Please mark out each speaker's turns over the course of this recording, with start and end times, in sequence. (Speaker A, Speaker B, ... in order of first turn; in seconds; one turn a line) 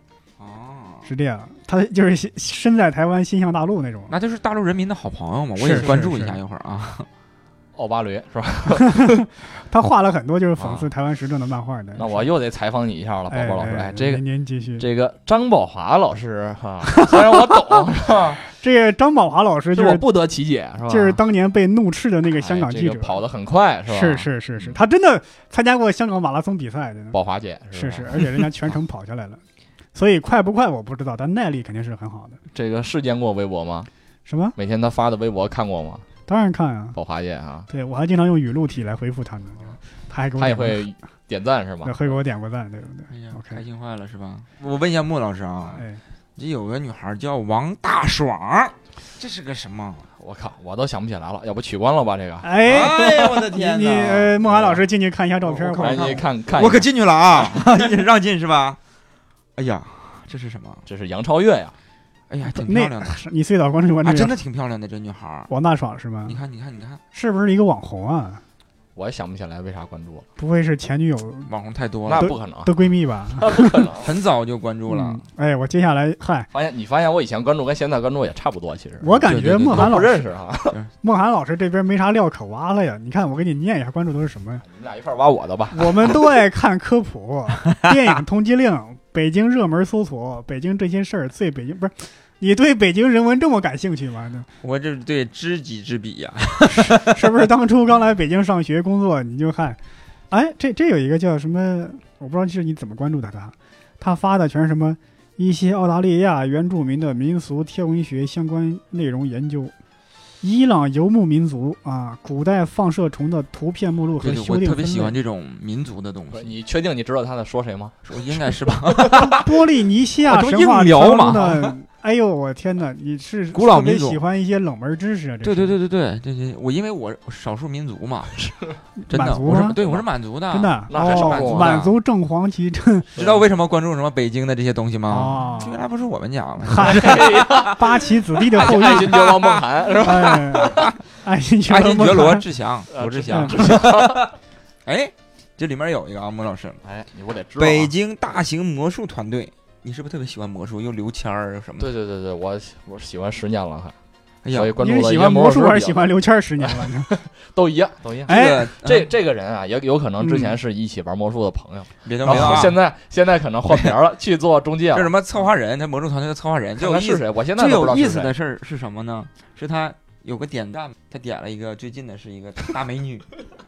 Speaker A: 0.4-1.1
Speaker B: 1.0-4.1
Speaker A: 4.1-7.1
Speaker B: 5.6-6.4
Speaker C: 7.7-9.2
Speaker B: 8.7-12.3
Speaker C: 10.6-10.8
Speaker C: 11.9-14.2
Speaker B: 13.3-14.8
Speaker C: 14.8-18.4
Speaker B: 18.5-20.0
Speaker C: 19.7-21.2
Speaker B: 20.9-23.2
Speaker C: 22.4-24.8
Speaker B: 23.9-27.2
Speaker C: 27.1-28.5
Speaker B: 27.7-29.4
Speaker B: 29.9-32.4
Speaker C: 32.5-33.9
Speaker B: 34.2-34.5
Speaker C: 34.5-36.0
Speaker B: 36.3-37.0
Speaker C: 36.9-37.7
Speaker B: 37.7-40.8
Speaker C: 40.4-41.9
Speaker B: 41.8-43.6
Speaker A: 43.1-45.8
Speaker B: 45.7-46.0
Speaker A: 46.4-50.1
Speaker C: 50.2-53.3
Speaker B: 52.4-56.2
Speaker A: 52.6-54.8
Speaker A: 55.5-58.8
Speaker C: 55.8-56.9
Speaker A: 59.5-60.8
Speaker C: 60.9-61.7
Speaker A: 62.3-63.2
Speaker B: 62.5-64.3
Speaker A: 64.0-65.5
Speaker B: 65.5-66.4
Speaker A: 66.2-67.0
Speaker B: 67.1-68.4
Speaker C: 68.9-70.3
Speaker B: 70.4-71.5
Speaker A: 71.5-72.3
Speaker C: 72.0-72.7
Speaker B: 72.2-73.8
Speaker C: 73.4-74.1
Speaker A: 74.0-75.2
Speaker B: 74.9-76.5
Speaker C: 76.5-80.8
Speaker B: 79.0-80.2
Speaker A: 79.2-80.0
Speaker B: 81.0-84.6
Speaker C: 84.6-86.1
Speaker B: 85.7-94.5
Speaker A: 94.6-97.3
Speaker B: 96.7-99.8
Speaker B: 100.3-109.7
Speaker B: 110.4-115.2
Speaker A: 114.2-116.5
Speaker C: 116.3-119.3
Speaker A: 118.0-119.5
Speaker B: 119.1-125.8
Speaker A: 120.2-121.7
Speaker A: 123.5-124.2
Speaker A: 125.4-128.5
Speaker B: 129.0-129.8
Speaker A: 129.1-131.9
Speaker C: 129.8-130.1
Speaker B: 130.5-133.1
Speaker C: 130.9-131.8
Speaker C: 133.1-133.4
Speaker A: 133.2-138.0
Speaker B: 135.1-135.8
Speaker B: 136.7-139.2
Speaker C: 136.7-138.0
Speaker C: 138.6-140.8
Speaker A: 138.6-140.9
Speaker B: 140.0-142.4
Speaker A: 141.7-144.3
Speaker C: 142.9-144.3
Speaker B: 143.3-143.6
Speaker A: 144.8-146.8
Speaker C: 146.8-147.9
Speaker A: 147.6-151.9
Speaker C: 151.8-153.9
Speaker A: 154.4-154.8
Speaker C: 154.5-165.1
Speaker B: 154.8-157.1
Speaker A: 158.3-159.1
Speaker B: 158.3-158.7
Speaker B: 160.2-160.5
Speaker A: 162.0-162.8
Speaker A: 163.7-163.9
Speaker A: 164.9-173.3
Speaker C: 166.8-168.3